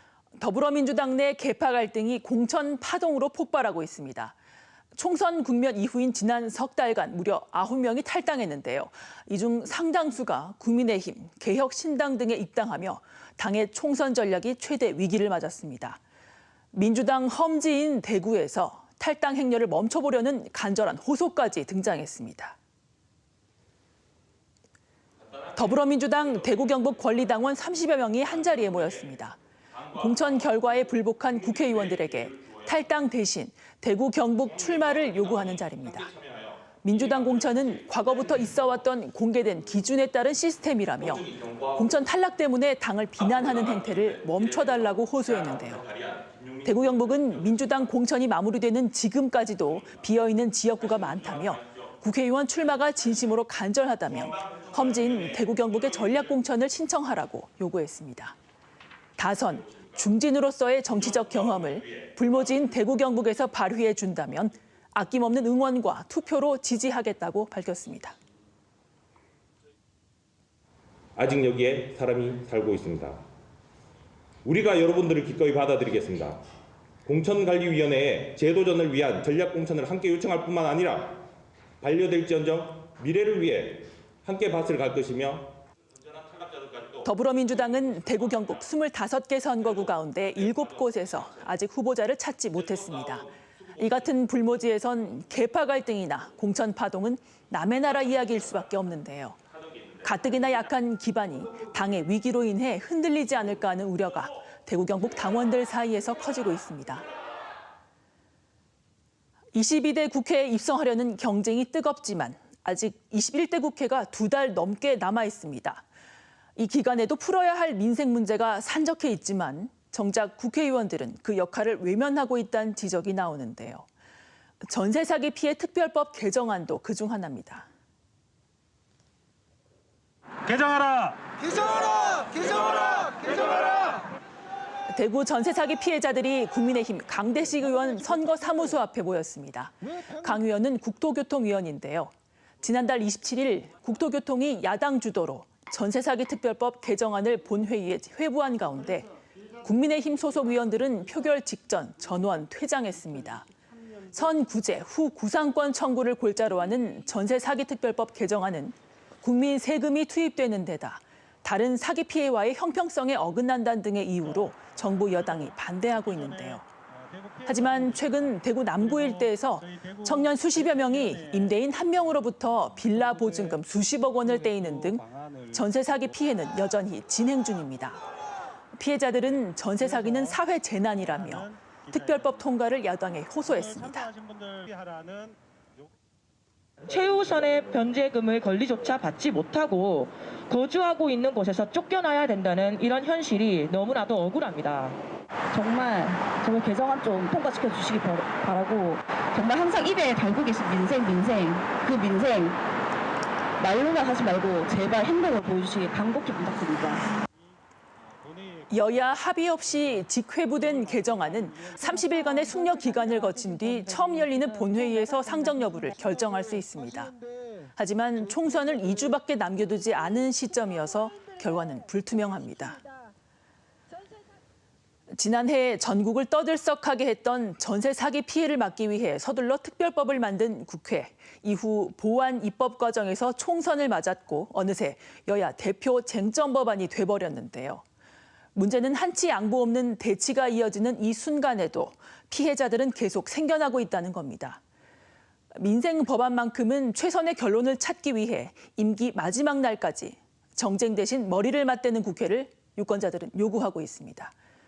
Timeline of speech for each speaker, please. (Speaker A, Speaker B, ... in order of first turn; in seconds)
Speaker A: 0.4-4.3, 5.0-16.0, 16.7-22.6, 25.6-29.4, 29.9-36.1, 36.8-45.8, 46.6-58.4, 59.2-68.2, 87.0-99.4, 100.0-107.0, 109.5-115.9, 116.6-123.9, 124.6-127.7, 134.9-149.1, 149.6-153.5, 154.1-166.7, 167.5-178.0, 178.8-184.1, 208.7-217.1, 217.8-222.8, 225.2-237.8, 238.6-244.6, 245.5-254.3
Speaker B: 25.2-29.2, 29.7-32.9, 34.4-38.8, 41.0-42.0, 43.2-47.9, 49.8-50.0, 50.8-51.9, 54.1-56.4, 59.5-60.1, 60.9-62.3, 71.2-73.2, 74.5-76.4, 77.1-81.3, 81.8-88.6, 89.8-91.2, 92.6-93.9, 99.6-100.1
Speaker C: 130.4-131.3, 165.2-165.4, 166.1-168.2, 168.8-171.5, 172.9-173.6, 174.3-175.6, 179.8-180.4, 181.2-181.9, 183.5-185.4, 208.2-208.7, 210.8-211.8
Speaker D: 186.9-195.0
Speaker E: 195.5-202.6, 203.6-207.1, 214.1-214.7